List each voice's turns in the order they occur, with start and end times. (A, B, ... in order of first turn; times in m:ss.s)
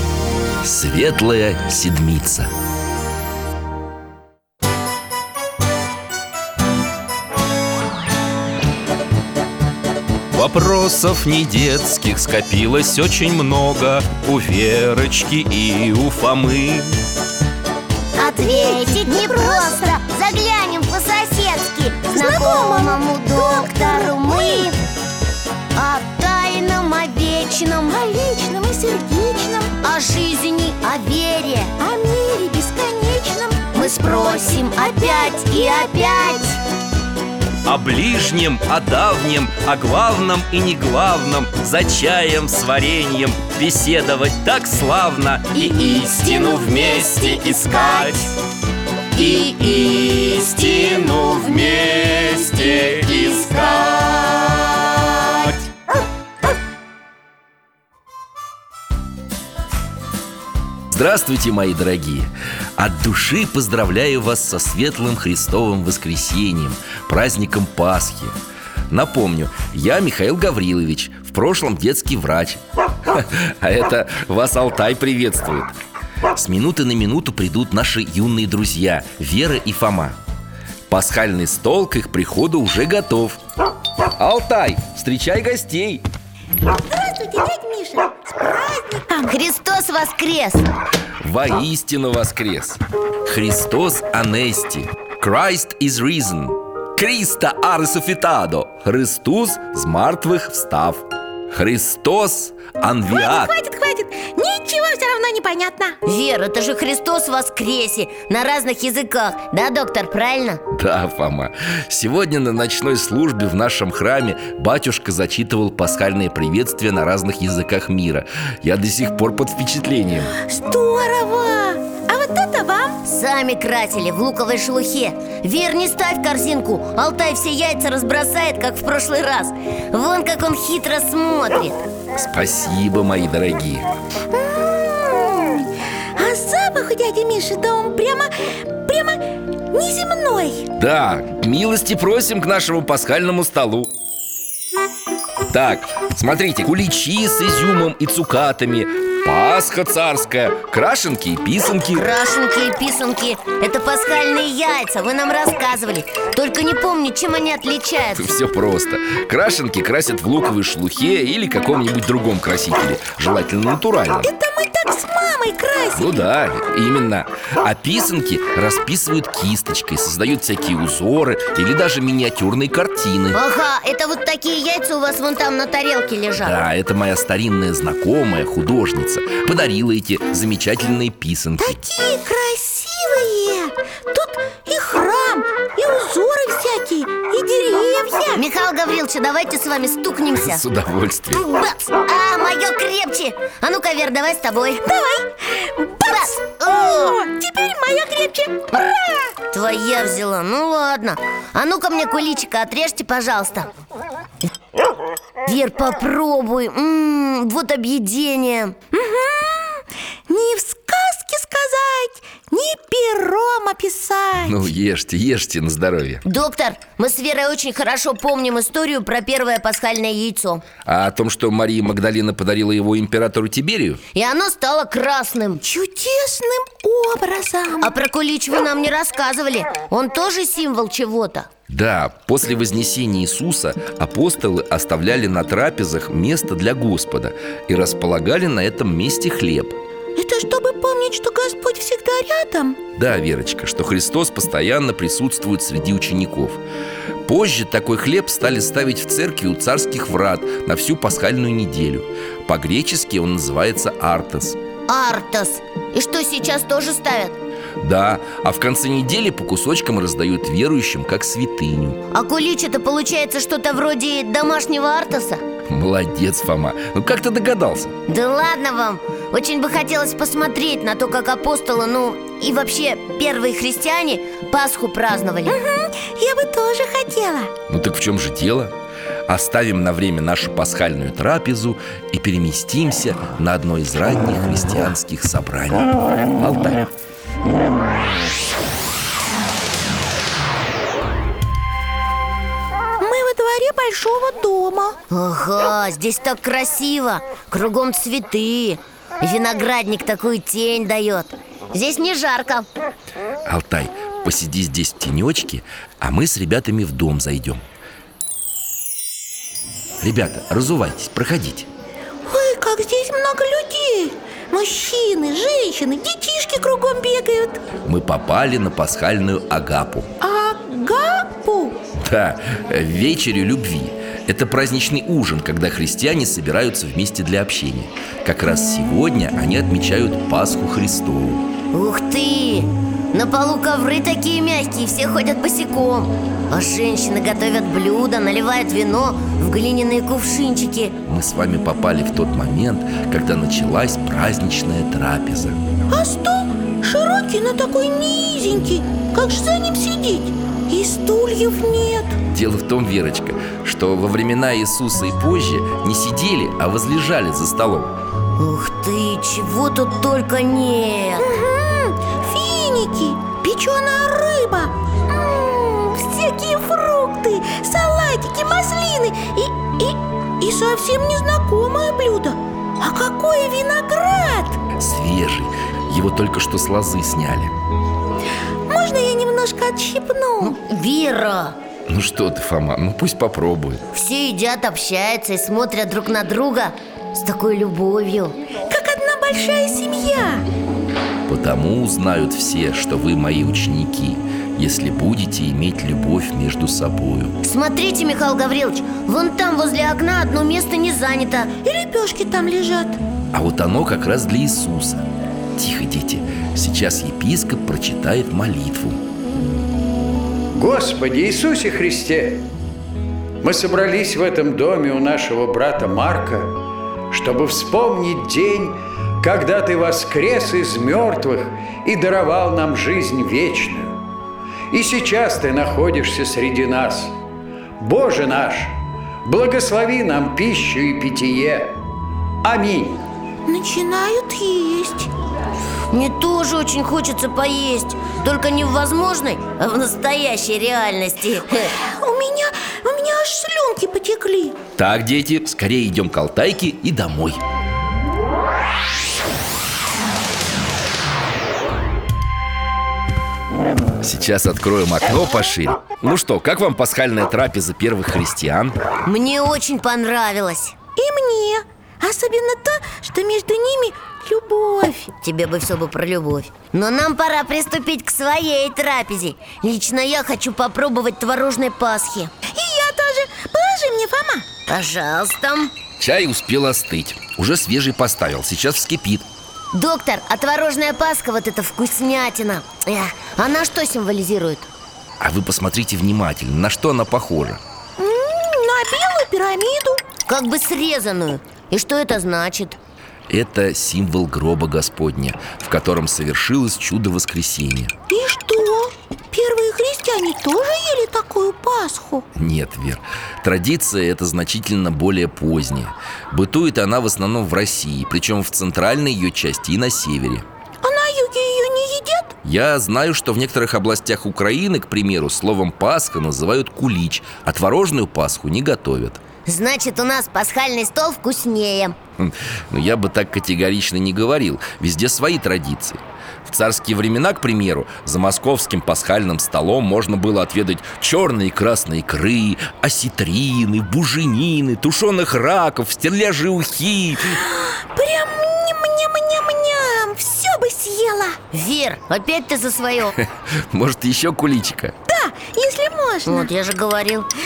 0:00.6-0:02.5 A
0:10.3-0:17.0 A
0:18.2-0:24.8 B
0:18.2-0:20.0 C
0:22.1-0:24.7 C
0:25.7-0:28.0 B
0:27.9-0:29.8 C
0:29.8-0:31.7 B
0:31.8-0:36.5 C
0:33.7-0:36.6 B
0:37.6-0:48.3 A
0:45.5-0:48.3 B
0:49.2-0:53.7 A
0:49.2-0:55.6 B
1:00.9-1:08.3 A
1:08.9-1:15.7 A
1:16.3-1:20.2 A
1:20.9-1:23.4 A
1:24.2-1:26.1 A
1:26.9-1:29.3 C
1:29.2-1:30.7 B
1:31.2-1:43.5 A
1:43.1-1:46.0 C
1:46.0-1:50.6 B
1:50.7-2:00.3 A
2:00.4-2:03.0 C
2:03.0-2:11.8 B
2:12.1-2:13.9 A
2:14.3-2:18.3 C
2:18.8-2:20.7 C
2:20.8-2:23.9 A
2:25.5-2:32.1 A
2:31.9-2:38.3 B
2:38.2-2:44.3 A
2:44.2-2:46.2 C
2:45.9-2:53.4 A
2:53.3-2:56.6 B
2:56.4-3:01.8 A
3:01.6-3:08.4 C
3:08.4-3:10.6 B
3:10.3-3:11.4 A
3:11.4-3:14.9 B
3:14.8-3:18.8 C
3:16.0-3:17.2 B
3:19.5-3:23.7 B
3:25.4-3:28.8 B
3:28.9-3:34.6 C
3:34.4-3:36.2 A
3:36.2-3:40.6 B
3:40.8-3:44.0 A
3:44.1-3:45.6 B
3:45.6-3:47.9 C
3:47.8-3:51.5 B
3:51.7-3:59.8 A
4:00.2-4:02.8 C
4:03.0-4:06.6 A
4:07.2-4:14.6 A
4:14.9-4:17.4 B
4:17.8-4:22.0 A
4:22.1-4:25.4 B
4:25.7-4:28.0 A
4:28.1-4:35.6 B
4:35.5-4:37.5 C
4:37.7-4:38.7 A
4:39.3-4:46.9 A
4:53.0-4:55.0 C
4:55.1-5:02.6 B
5:03.4-5:07.6 A
5:10.0-5:11.7 A
5:12.2-5:17.6 C
5:17.8-5:20.1 A
5:20.2-5:21.8 C
5:22.0-5:31.5 A
5:31.7-5:41.0 B
5:41.0-5:45.6 A
5:45.9-5:52.2 C
5:52.3-5:57.9 A
5:58.4-6:01.4 B
6:01.2-6:14.6 C
6:14.8-6:17.5 A
6:18.7-6:20.6 C
6:20.4-6:21.6 B
6:21.9-6:23.8 A
6:23.9-6:28.4 B
6:28.7-6:30.4 C
6:31.3-6:37.3 A
6:37.4-6:41.5 B
6:41.6-6:43.0 C
6:43.3-6:45.0 A
6:45.6-6:49.0 A
6:50.5-6:52.5 D
6:53.4-6:56.5 D
6:57.1-7:04.0 D
7:04.7-7:07.1 D
7:07.8-7:11.8 D
7:12.4-7:13.0 D
7:13.4-7:15.1 C
7:15.9-7:21.7 B
7:21.8-7:24.6 C
7:24.8-7:27.4 A
7:34.0-7:38.8 A
7:39.0-7:40.7 B
7:41.0-7:45.1 C
7:45.2-7:52.3 B
7:52.5-7:54.4 C
7:54.7-7:55.7 B
7:56.0-7:59.2 A
7:59.7-8:04.7 B
8:05.2-8:07.6 A
8:08.0-8:10.0 C
8:10.3-8:12.8 B
8:13.3-8:17.9 A
8:18.1-8:22.2 C
8:22.3-8:30.4 A
8:30.8-8:32.4 C
8:32.4-8:39.2 A
8:39.4-8:42.0 B
8:42.2-8:57.4 A
8:57.3-9:01.4 C
9:01.5-9:03.1 B
9:03.2-9:04.9 A
9:05.1-9:06.5 C
9:06.2-9:07.3 B